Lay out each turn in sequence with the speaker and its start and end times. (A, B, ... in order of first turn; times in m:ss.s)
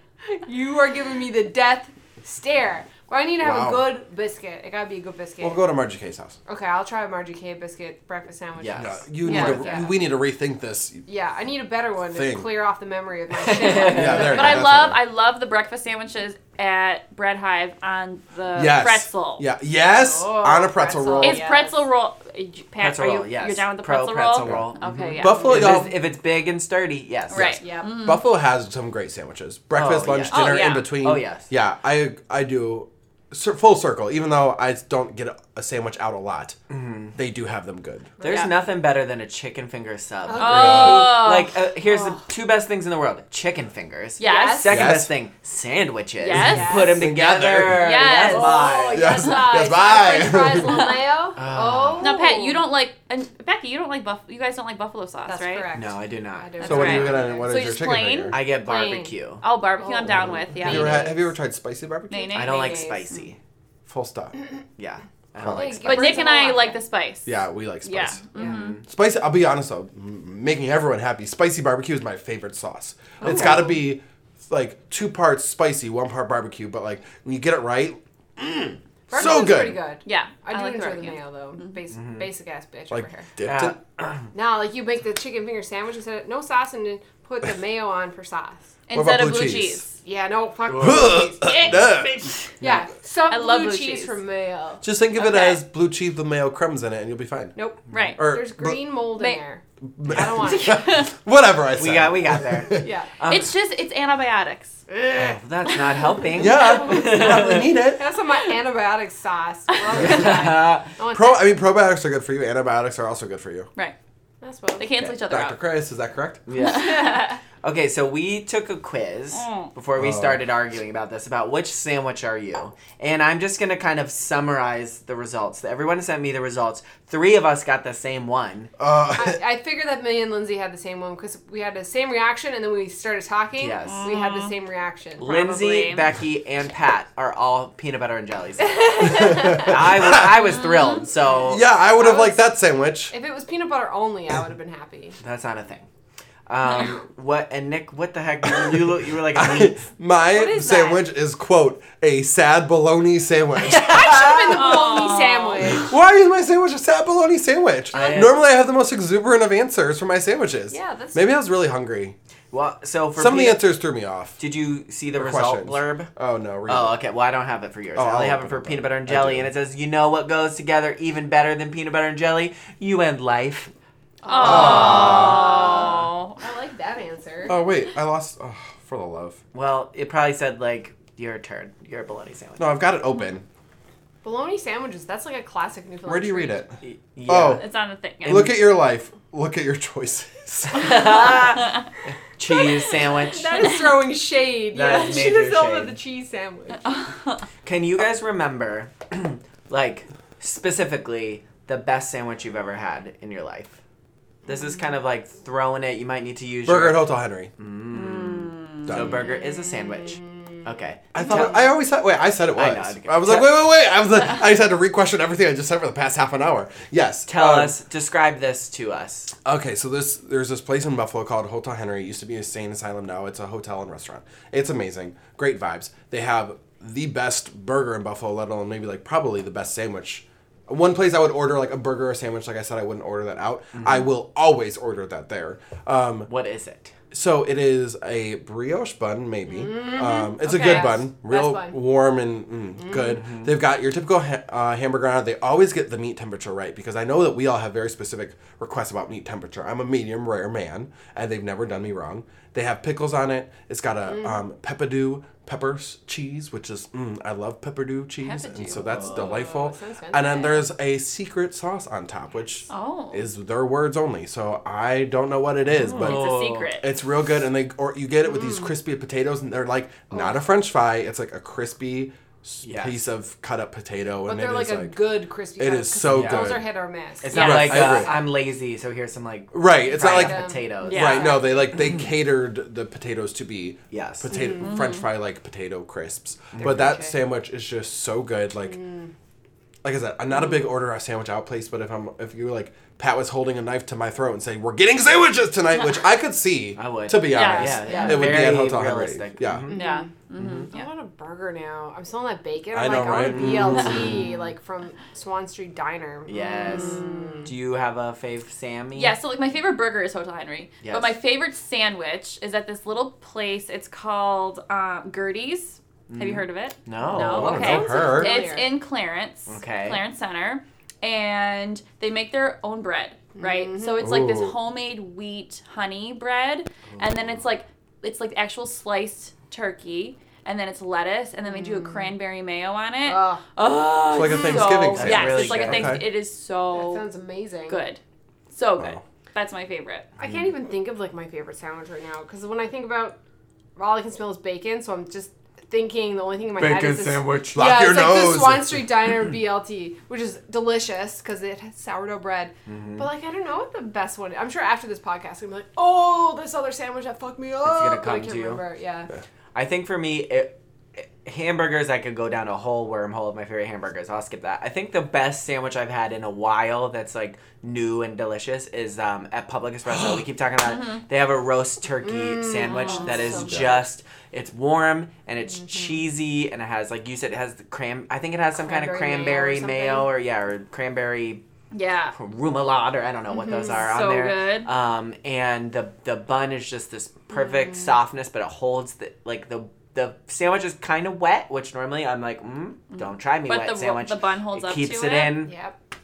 0:00.2-0:05.6 A
0:03.4-0:03.9 B
0:05.4-0:06.4 B
0:06.4-0:10.0 A
0:08.6-0:09.7 C
0:08.8-0:11.0 B
0:09.2-0:09.6 D
0:11.0-0:14.7 A
0:12.1-0:12.5 B
0:13.4-0:14.4 C
0:13.8-0:15.0 B
0:14.0-0:19.4 D
0:18.5-0:21.4 B
0:19.9-0:21.8 A
0:21.2-0:25.8 D
0:22.8-0:27.6 C
0:24.4-0:25.9 B
0:27.3-0:28.2 D
0:27.6-0:27.9 A
0:28.0-0:36.6 B
0:29.7-0:31.5 C
0:30.3-0:30.9 D
0:36.7-0:37.1 C
0:37.1-0:38.1 B
0:38.2-0:38.5 A
0:38.2-0:49.3 C
0:40.3-0:41.2 A
0:40.4-0:41.5 D
0:40.5-0:41.0 B
0:44.2-0:44.8 A
0:44.2-0:44.6 D
0:44.7-0:45.1 B
0:46.2-0:47.0 D
0:46.3-0:47.0 A
0:46.4-0:48.0 B
0:47.7-0:48.7 D
0:48.0-0:52.6 A
0:48.9-0:50.9 B
0:50.6-0:51.0 D
0:51.4-0:52.1 C
0:52.0-0:55.7 D
0:55.2-0:57.6 A
0:55.7-0:57.2 C
0:56.6-0:58.5 D
0:56.6-0:58.4 B
0:58.3-0:59.4 C
0:58.6-0:59.1 A
0:59.4-1:01.2 D
0:59.8-1:01.2 A
1:00.5-1:02.4 B
1:02.1-1:03.2 D
1:02.3-1:03.4 C
1:02.4-1:03.0 A
1:03.9-1:04.3 B
1:04.8-1:06.2 C
1:05.4-1:06.0 B
1:05.4-1:06.8 A
1:05.8-1:07.3 D
1:07.2-1:08.2 B
1:07.8-1:08.8 D
1:08.3-1:08.8 C
1:08.9-1:19.8 B
1:13.2-1:13.7 D
1:13.2-1:13.7 C
1:19.1-1:23.3 A
1:20.0-1:21.8 D
1:21.9-1:22.2 C
1:22.9-1:23.8 B
1:23.4-1:24.3 C
1:24.3-1:28.8 A
1:28.9-1:30.0 D
1:28.9-1:29.8 B
1:30.0-1:31.6 A
1:30.7-1:31.0 C
1:30.8-1:32.1 B
1:31.4-1:32.5 D
1:32.6-1:34.8 A
1:33.3-1:34.2 D
1:34.8-1:37.5 B
1:35.2-1:35.6 D
1:37.5-1:41.0 A
1:37.9-1:38.3 D
1:38.2-1:38.8 B
1:40.0-1:42.9 B
1:40.4-1:41.1 D
1:41.8-1:43.5 C
1:42.7-1:43.1 A
1:43.3-1:44.8 D
1:44.9-1:47.7 C
1:45.7-1:46.3 D
1:46.4-1:48.0 B
1:46.6-1:51.4 A
1:50.0-1:50.9 C
1:51.1-1:53.7 B
1:54.4-1:54.9 A
1:54.8-1:55.6 D
1:55.0-1:56.4 B
1:56.5-2:08.7 C
1:56.6-1:57.4 D
1:56.6-1:57.4 A
1:59.3-1:59.7 D
2:00.0-2:00.4 B
2:08.8-2:09.4 B
2:09.1-2:15.3 A
2:13.6-2:14.1 C
2:13.8-2:14.5 D
2:15.2-2:21.6 C
2:15.2-2:16.1 D
2:18.6-2:19.7 A
2:19.0-2:20.3 B
2:20.2-2:21.1 D
2:21.4-2:23.1 B
2:21.9-2:22.4 A
2:23.1-2:25.2 A
2:25.2-2:25.9 C
2:26.5-2:29.8 C
2:28.4-2:34.1 B
2:30.3-2:31.0 A
2:33.7-2:34.8 C
2:33.8-2:35.9 A
2:34.5-2:35.6 D
2:35.7-2:42.1 B
2:37.9-2:38.4 C
2:40.7-2:41.3 A
2:42.5-2:43.6 C
2:43.2-2:44.4 B
2:44.4-2:46.1 C
2:45.2-2:47.0 B
2:46.7-2:53.7 C
2:48.0-2:49.5 B
2:54.2-2:57.6 A
2:54.2-2:56.4 D
2:54.4-2:55.5 B
2:54.5-2:55.6 C
2:57.5-2:59.4 B
2:59.5-3:02.7 C
3:02.6-3:03.4 B
3:04.2-3:06.6 A
3:06.0-3:06.7 B
3:06.8-3:07.6 C
3:07.3-3:07.6 B
3:07.4-3:08.5 D
3:08.2-3:08.6 C
3:08.2-3:11.3 B
3:10.7-3:11.8 C
3:12.4-3:13.7 C
3:12.5-3:16.8 A
3:14.7-3:16.0 C
3:16.9-3:17.4 D
3:17.6-3:23.8 C
3:24.5-3:31.6 C
3:26.6-3:27.5 B
3:27.9-3:28.9 D
3:28.8-3:29.2 B
3:29.2-3:30.6 A
3:31.1-3:37.7 B
3:32.5-3:33.6 C
3:37.3-3:39.3 C
3:39.4-3:56.3 B
3:53.7-3:54.1 C
3:56.3-3:56.9 C
3:57.1-4:35.0 B
3:59.5-4:01.8 A
4:00.4-4:01.0 D
4:02.8-4:03.2 A
4:03.1-4:03.5 C
4:18.2-4:19.0 D
4:18.9-4:20.7 A
4:22.7-4:23.2 D
4:25.7-4:26.7 C
4:26.0-4:26.8 D
4:28.3-4:28.7 A
4:32.6-4:33.0 C
4:34.2-4:38.1 A
4:35.6-4:36.7 B
4:36.1-4:36.5 C
4:37.2-4:41.2 C
4:37.3-4:37.7 D
4:37.4-4:38.1 B
4:39.5-4:48.8 B
4:39.9-4:41.4 A
4:40.8-4:41.4 D
4:43.9-4:44.4 C
4:44.3-4:44.7 A
4:44.6-4:45.0 D
4:46.5-4:47.1 C
4:46.6-4:47.1 A
4:48.6-4:49.1 A
4:49.8-4:59.7 B
4:56.8-4:59.8 C
4:57.2-4:58.3 D
4:57.5-4:58.4 A
4:59.7-5:00.1 A
4:59.7-5:00.9 D
5:00.3-5:00.7 C
5:00.7-5:07.5 A
5:02.7-5:04.2 B
5:03.1-5:04.2 C
5:06.2-5:09.2 C
5:09.0-5:37.0 D
5:10.8-5:11.2 C
5:16.1-5:17.7 C
5:17.0-5:18.4 B
5:17.3-5:18.7 A
5:19.5-5:20.0 C
5:23.4-5:24.0 A
5:24.0-5:24.5 B
5:31.5-5:32.1 A
5:33.0-5:33.4 A
5:34.1-5:36.0 B
5:34.2-5:34.7 A
5:34.9-5:36.0 C
5:36.7-5:37.8 A
5:37.7-5:38.0 D
5:38.5-5:40.1 D
5:40.2-5:43.2 A
5:43.8-5:59.1 A
5:46.6-5:48.9 B
5:52.7-5:53.1 C
5:57.6-5:58.6 C
5:59.5-6:21.4 C
6:12.0-6:13.8 A
6:12.6-6:13.5 D
6:15.6-6:16.0 A
6:18.5-6:20.1 A
6:21.7-6:22.1 D
6:22.1-6:35.5 C
6:23.3-6:23.8 A
6:23.7-6:24.7 D
6:33.0-6:35.4 D
6:35.4-6:35.8 A